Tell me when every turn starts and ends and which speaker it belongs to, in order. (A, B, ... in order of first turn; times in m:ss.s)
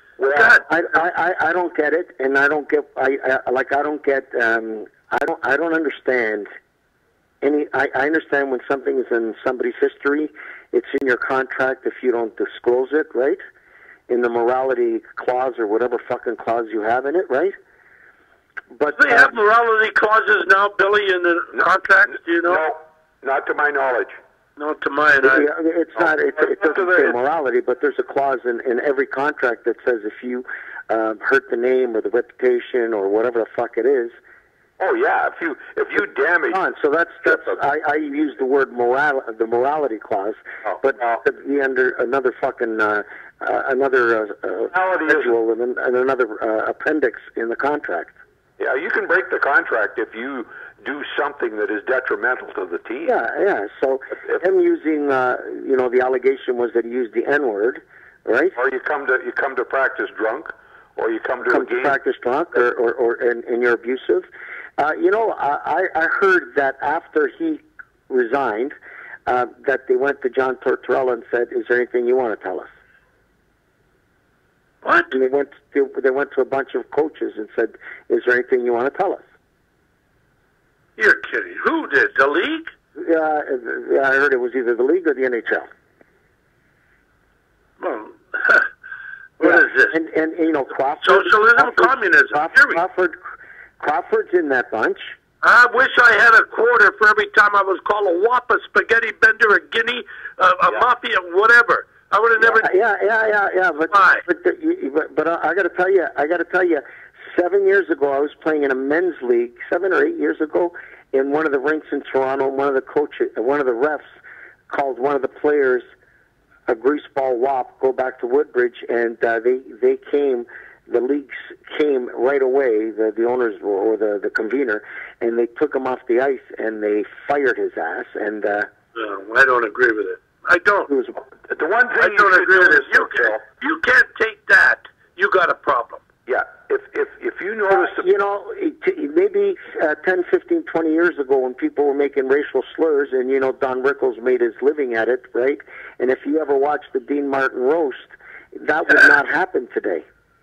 0:00.2-0:00.6 A
0:00.3-0:00.6 B
0:00.6-0:06.5 C
0:07.4-0:13.4 C
0:14.1-0:17.5 C
0:18.7-0:19.3 C
0:18.9-0:22.6 B
0:22.4-0:24.2 A
0:24.6-0:25.5 B
0:25.2-0:34.1 C
0:26.4-0:27.2 A
0:34.8-0:36.6 A
0:36.5-0:48.1 C
0:37.2-0:37.5 A
0:40.6-0:41.2 A
0:44.7-0:45.3 A
0:48.6-0:53.1 A
0:53.0-0:58.5 C
0:58.6-1:02.0 A
1:01.4-1:04.2 C
1:04.8-1:08.7 C
1:09.2-1:12.7 C
1:14.8-1:15.1 B
1:15.1-1:19.2 C
1:21.0-1:22.7 B
1:23.0-1:25.7 C
1:27.8-1:28.7 B
1:29.4-1:30.0 B
1:29.4-1:33.2 C
1:31.0-1:32.8 B
1:33.8-1:35.1 C
1:35.4-1:42.7 B
1:42.4-1:54.0 C
1:43.9-1:44.2 B
1:54.7-1:55.8 C
1:56.7-2:08.7 C
2:08.9-2:10.9 B
2:10.9-2:11.2 C
2:11.5-2:13.4 A
2:12.0-2:16.0 B
2:16.3-2:18.1 A
2:17.8-2:30.0 C